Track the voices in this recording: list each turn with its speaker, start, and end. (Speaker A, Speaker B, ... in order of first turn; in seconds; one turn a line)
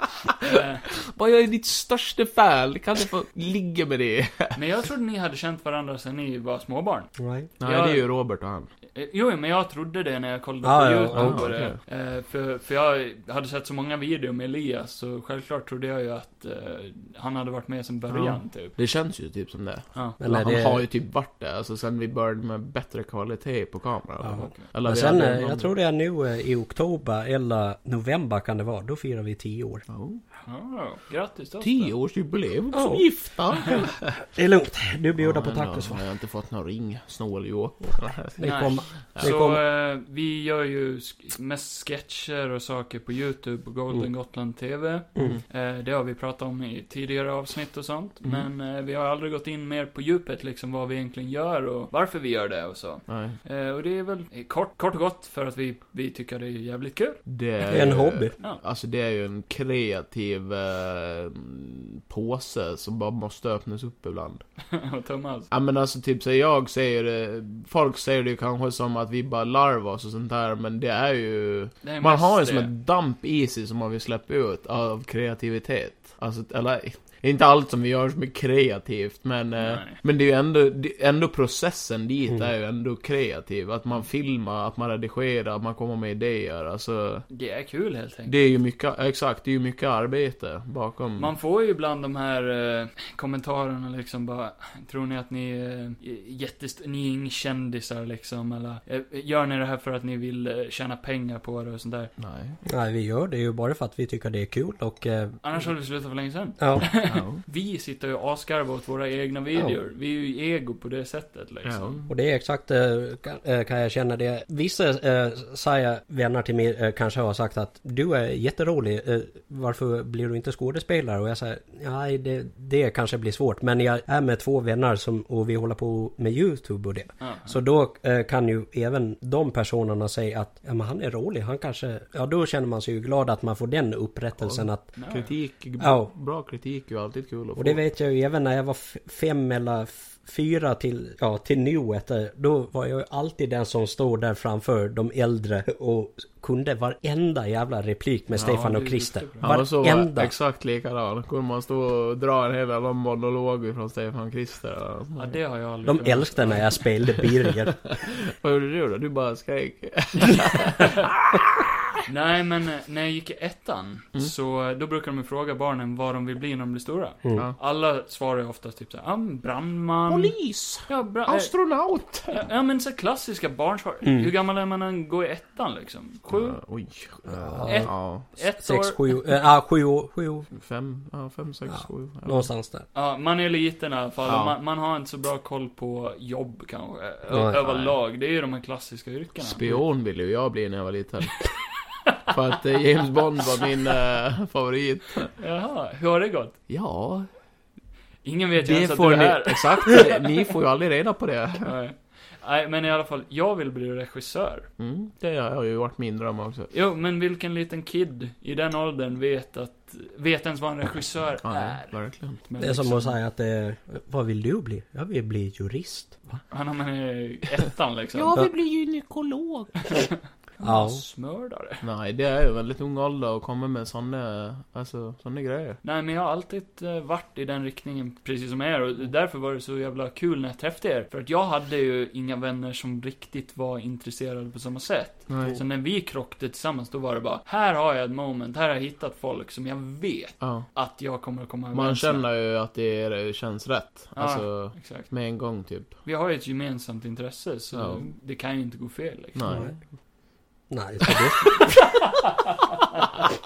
Speaker A: 0.3-4.6
Speaker B: 0.4-0.9
Speaker B: 4.5-8.1
Speaker C: 7.2-7.5
Speaker A: 7.6-8.7
Speaker B: 8.9-18.8
Speaker C: 10.6-11.4
Speaker A: 11.1-11.8
Speaker A: 18.1-25.7
Speaker C: 20.2-20.8
Speaker C: 24.2-29.9
Speaker B: 24.4-24.7
Speaker A: 29.9-30.2
Speaker B: 30.4-31.9
Speaker A: 31.6-34.1
Speaker C: 32.7-33.1
Speaker C: 34.3-36.0
Speaker A: 35.2-39.4
Speaker C: 38.4-39.6
Speaker B: 38.4-57.2
Speaker A: 53.1-53.4
Speaker A: 57.2-64.4
Speaker C: 57.7-58.3
Speaker B: 64.7-65.5
Speaker A: 65.5-87.2
Speaker B: 71.8-72.7
Speaker B: 79.6-80.0
Speaker B: 87.3-88.3
Speaker A: 88.2-91.3
Speaker B: 91.2-102.1
Speaker A: 102.2-102.6
Speaker C: 102.7-105.4
Speaker B: 105.4-112.0
Speaker C: 106.6-106.9
Speaker A: 107.0-107.4
Speaker A: 111.6-112.1
Speaker C: 112.1-135.0
Speaker B: 127.2-127.6
Speaker A: 134.4-137.8
Speaker B: 134.9-135.3
Speaker C: 135.8-136.1
Speaker C: 137.6-150.3
Speaker A: 148.3-148.6
Speaker B: 148.4-149.5
Speaker A: 149.4-155.4
Speaker B: 155.2-156.8
Speaker C: 155.8-157.9
Speaker A: 157.9-161.7
Speaker B: 162.1-170.3
Speaker A: 170.1-172.4
Speaker B: 170.8-171.5
Speaker B: 172.3-176.6
Speaker C: 174.0-174.3
Speaker A: 176.3-178.2
Speaker C: 177.3-180.5
Speaker B: 177.6-179.0
Speaker A: 180.5-182.5
Speaker C: 181.7-182.8
Speaker B: 182.9-189.6
Speaker A: 184.2-184.5
Speaker C: 187.3-187.6
Speaker A: 189.4-191.3
Speaker A: 192.3-195.3
Speaker B: 195.4-196.6
Speaker A: 196.7-197.3
Speaker B: 198.2-200.3
Speaker A: 198.6-201.7
Speaker B: 201.6-204.7
Speaker A: 204.8-206.7
Speaker B: 206.7-213.1
Speaker A: 211.4-212.4
Speaker C: 212.6-216.4
Speaker B: 216.5-218.5
Speaker A: 218.1-219.8
Speaker B: 219.8-221.8
Speaker C: 220.6-221.0
Speaker A: 221.8-225.8
Speaker B: 225.8-242.2
Speaker A: 235.3-235.6
Speaker A: 240.4-240.7
Speaker A: 241.7-245.9
Speaker B: 244.2-245.1
Speaker B: 246.0-249.7
Speaker A: 247.7-248.1
Speaker A: 249.3-249.8
Speaker C: 249.5-249.7
Speaker C: 250.7-252.2
Speaker B: 251.5-253.2